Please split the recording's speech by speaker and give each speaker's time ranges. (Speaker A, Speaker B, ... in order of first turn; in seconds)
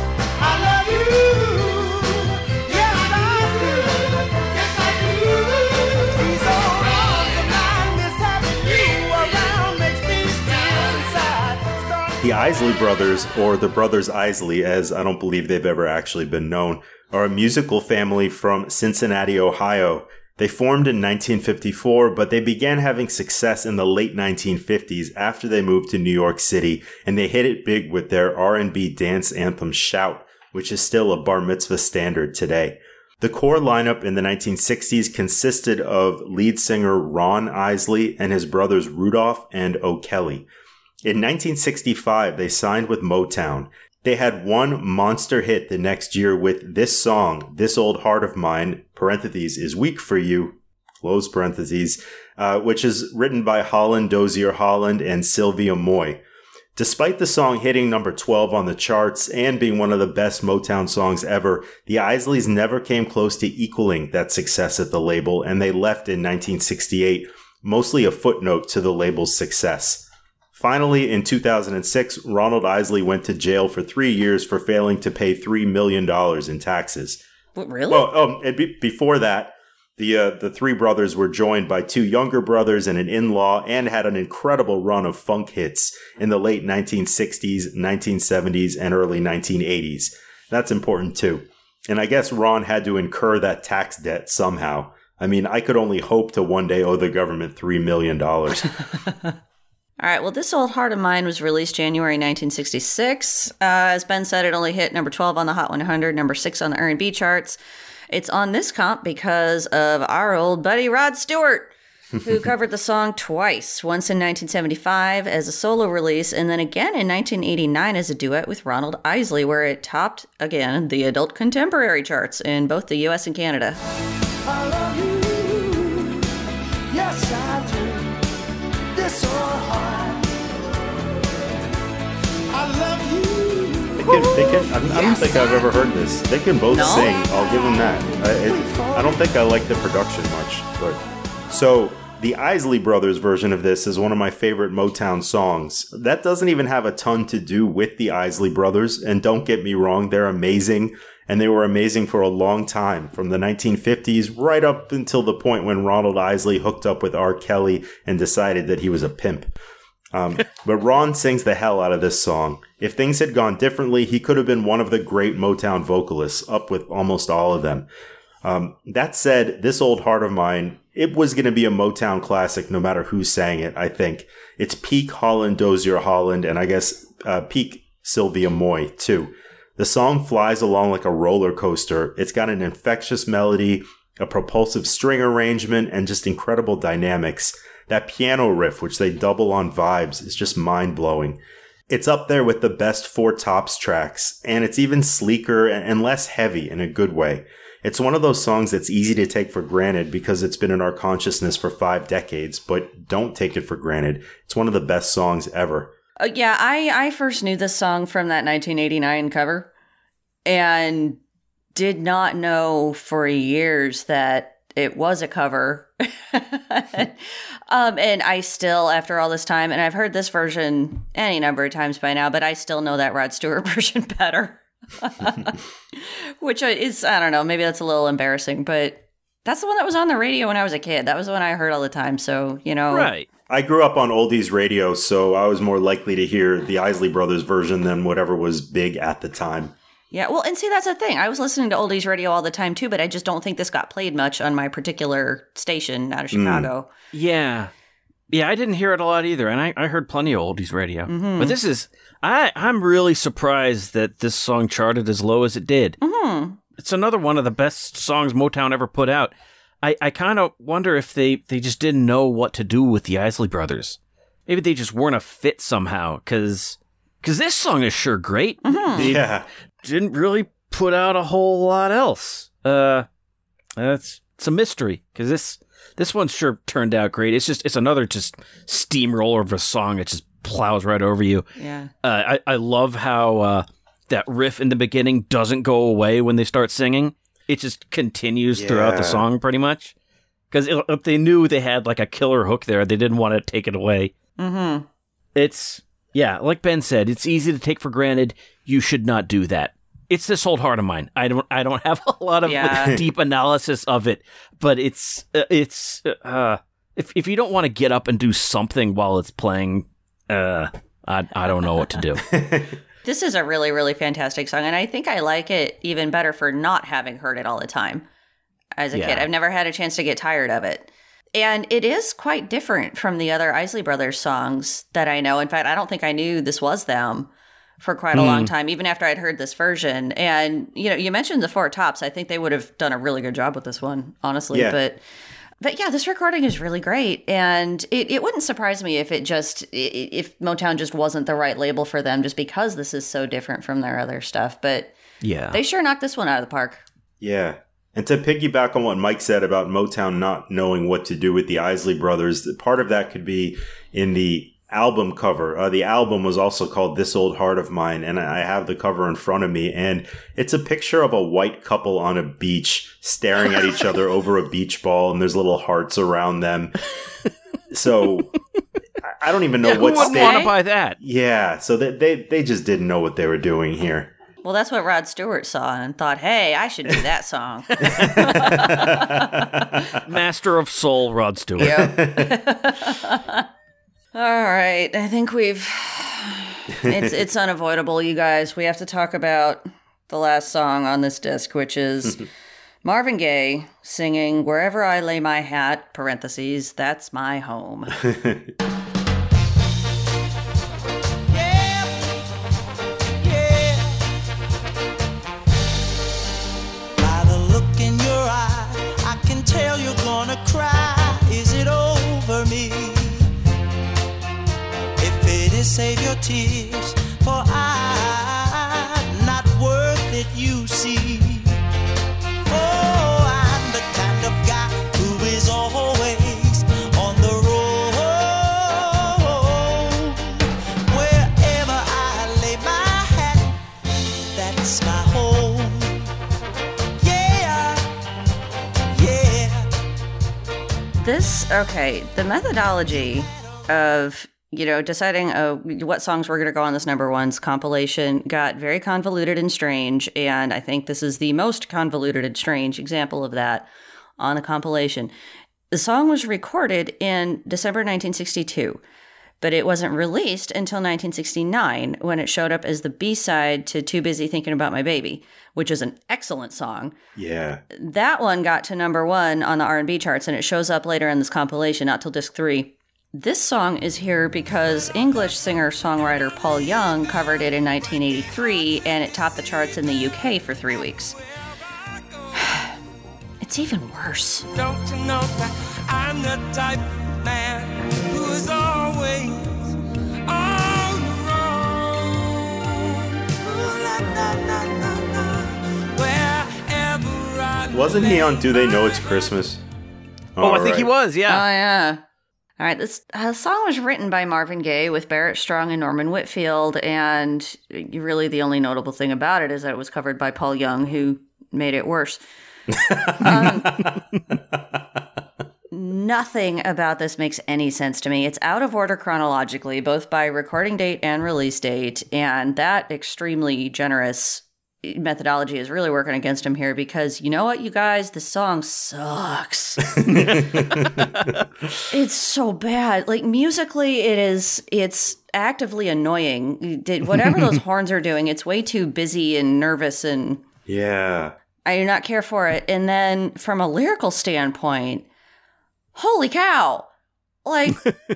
Speaker A: 0.4-12.3, 124.4-126.2, 126.9-128.2, 128.9-131.5, 132.5-135.7, 136.8-139.4, 401.3-402.1, 403.2-404.0, 407.0-413.3, 415.0-421.6, 422.4-433.6, 434.3-436.0, 437.0-437.9, 438.9-439.7, 443.0-443.2, 493.5-495.4
Speaker B: 12.2-40.5, 41.0-56.2, 56.8-77.2, 77.9-98.7, 134.0-159.5, 160.1-167.9, 168.4-205.9, 233.5-239.7, 246.3-246.7, 268.9-269.4, 288.5-289.2, 312.3-312.8, 334.5-334.8, 347.2-366.7, 367.7-368.3, 369.0-374.1, 377.9-379.9, 381.6-382.4, 386.8-387.1, 398.0-398.4, 467.1-467.6, 497.7-499.6, 500.4-500.9, 512.9-513.3, 529.9-531.3, 540.7-541.3
Speaker C: 77.5-78.1, 100.0-107.6, 108.1-123.8, 134.9-135.3, 136.7-137.1, 206.2-209.7, 210.4-211.2, 211.7-233.1, 240.1-246.9, 251.1-251.6, 256.0-256.6, 268.6-269.0, 281.6-281.9, 294.4-294.9, 302.4-303.0, 313.0-318.0, 318.8-327.3, 327.8-335.0, 335.6-344.9, 345.5-346.8, 369.6-370.5, 374.4-379.8, 381.6-383.4, 384.1-392.2, 392.8-398.0, 441.0-453.7, 454.2-455.1, 455.7-458.8, 459.4-466.9, 467.7-481.1, 482.4-482.7, 483.4-484.5, 501.3-502.0, 502.6-512.2, 512.9-513.9, 515.7-530.0, 531.9-540.4, 541.6-545.0, 545.9-546.9, 547.4-547.9
Speaker D: 232.9-233.3, 247.1-247.7, 248.3-256.0, 256.8-269.3, 269.8-273.1, 273.8-281.5, 282.0-289.9, 290.5-294.1, 295.3-312.2, 318.9-319.3, 328.1-328.5, 345.2-345.6, 369.7-371.0, 379.9-381.8, 500.4-501.4, 530.1-530.4
Speaker E: 484.5-489.7, 490.3-492.9, 493.4-494.7, 496.0-498.8